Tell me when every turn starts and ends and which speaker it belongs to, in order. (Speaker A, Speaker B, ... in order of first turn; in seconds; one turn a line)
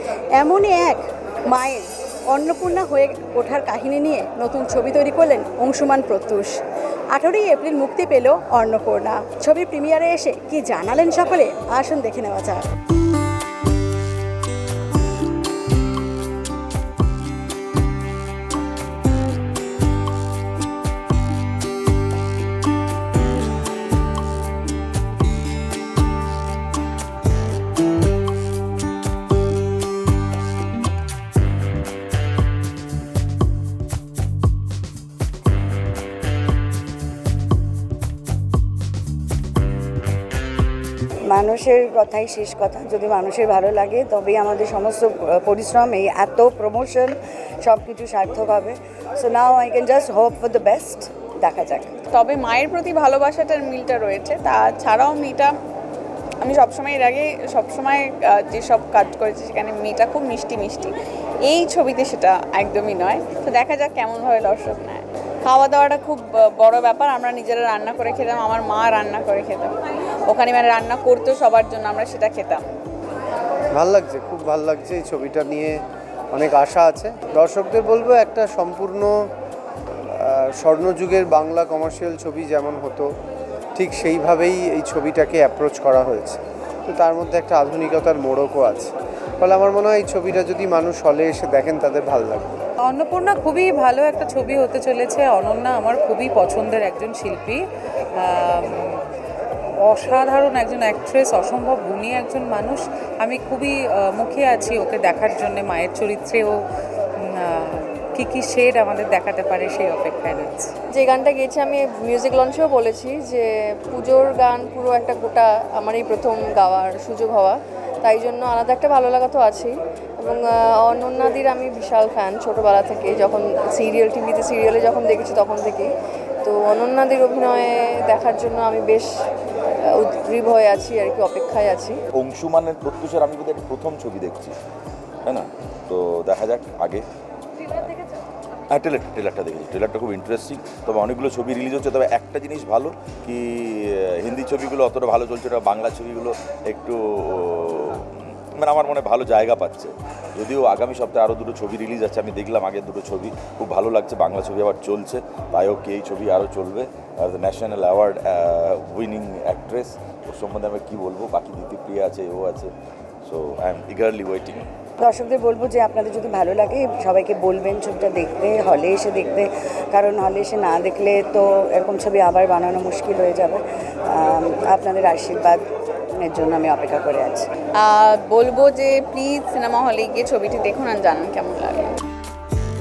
Speaker A: 0.4-6.6
Speaker A: 7.1-12.6
Speaker B: 41.3-51.9
Speaker C: 52.1-55.5
Speaker C: 56.4-60.9
Speaker C: 61.5-72.6
Speaker D: 73.8-75.8
Speaker D: 76.3-79.1
Speaker D: 80.2-83.1
Speaker D: 83.8-92.6
Speaker E: 92.8-97.6
Speaker E: 98.2-99.0
Speaker E: 99.8-106.6
Speaker E: 107.4-110.7
Speaker F: 110.9-125.9
Speaker F: 126.5-129.1
Speaker F: 130.0-132.0
Speaker G: 132.2-134.6
Speaker G: 135.3-137.1
Speaker G: 138.7-162.7
Speaker G: 163.3-164.7
Speaker B: 165.0-175.6
Speaker B: 176.2-177.5
Speaker C: 177.8-181.9